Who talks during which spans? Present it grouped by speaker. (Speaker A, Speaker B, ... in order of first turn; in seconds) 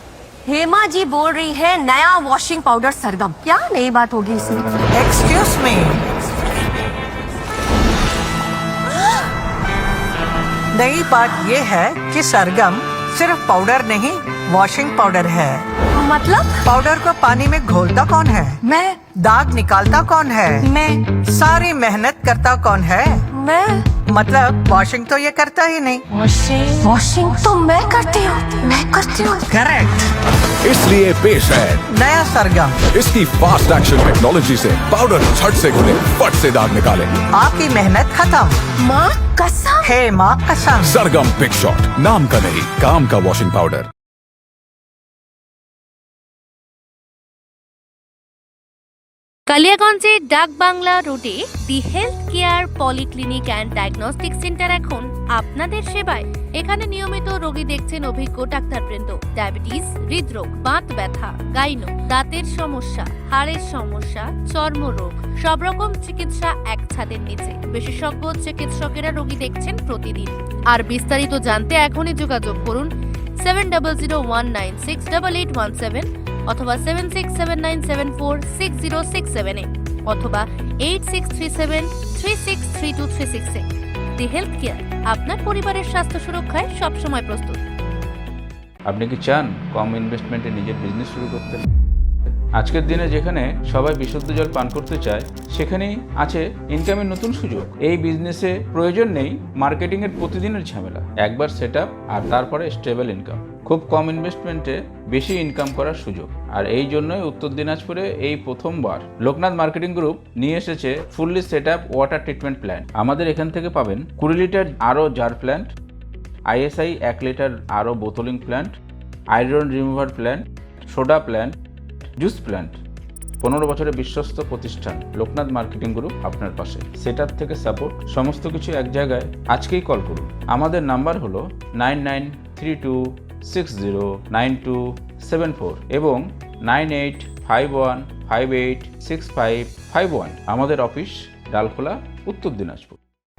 Speaker A: 0.5-4.6, 15.9-16.7, 18.6-19.1, 20.6-21.1, 23.3-23.9, 26.1-29.5, 38.8-39.9
Speaker B: 4.9-6.0, 10.7-15.7, 16.6-23.2, 23.9-26.0, 29.5-30.1, 31.9-32.8, 37.3-38.6, 39.8-41.0
Speaker C: 30.6-31.8, 32.9-37.1, 40.9-43.9
Speaker D: 49.5-83.7, 84.2-87.6
Speaker E: 88.9-91.6, 92.5-115.7, 116.5-118.8, 119.3-121.5, 122.2-122.8, 123.4-143.0